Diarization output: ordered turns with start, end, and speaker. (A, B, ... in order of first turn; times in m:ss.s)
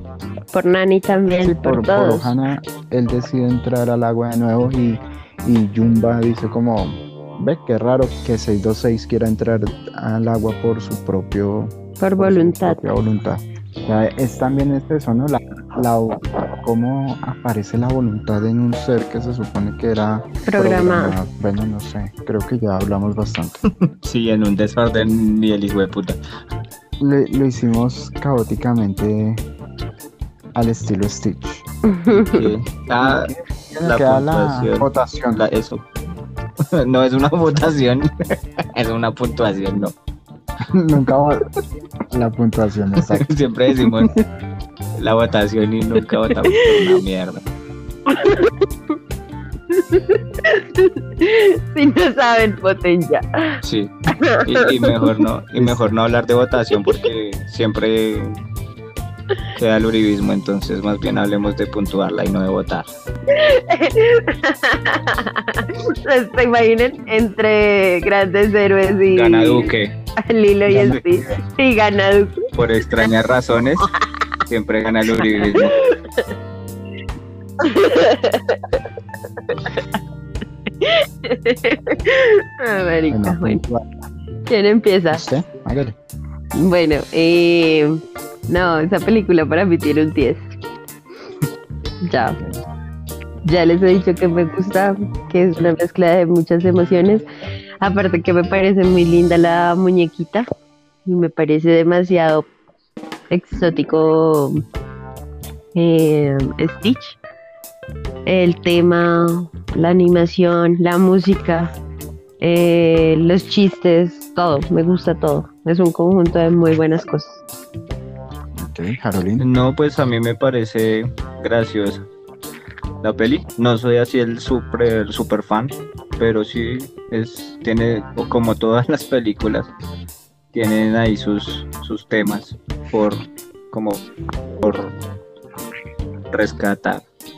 0:00.5-0:02.3 A
0:01.4-0:23.6 B
0:12.0-0:12.8 A
0:20.5-0:21.2 A
0:24.0-0:26.2 C
0:27.0-0:29.4 B
0:30.6-0:31.6 B
0:31.9-0:32.5 A
0:32.1-0:33.3 C
0:33.0-0:35.4 B
0:33.8-0:35.8 C
0:36.8-0:38.1 C
0:38.7-0:40.0 C
0:40.7-0:41.4 B
0:42.1-0:43.4 B
0:43.0-0:44.1 C
0:45.0-0:47.4 C
0:46.7-0:47.0 A
0:48.1-0:49.0 A
0:49.7-0:53.6 A
0:53.6-0:53.9 C
0:54.4-0:55.0 A
0:54.4-0:58.4 C
0:59.6-1:02.9 C
1:03.3-1:12.5 A
1:09.1-1:10.0 C
1:10.7-1:11.4 B
1:12.5-1:13.9 C
1:14.5-1:15.7 C
1:15.2-1:16.3 A
1:17.6-1:18.8 A
1:19.5-1:20.0 A
1:20.8-1:23.6 A
1:23.1-1:23.9 B
1:24.5-1:25.2 A
1:25.1-1:26.0 B
1:26.6-1:30.4 A
1:32.0-1:32.4 A
1:32.2-1:32.6 B
1:33.5-1:37.2 A
1:37.8-1:40.5 A
1:41.0-1:42.5 A
1:43.3-1:44.6 A
1:45.8-1:47.2 A
1:48.3-1:51.7 A
1:52.4-1:57.4 A
1:58.5-1:59.4 B
1:59.4-2:02.1 C
2:03.0-2:09.7 C
2:10.5-2:14.1 C
2:14.6-2:15.0 C
2:16.3-2:17.0 C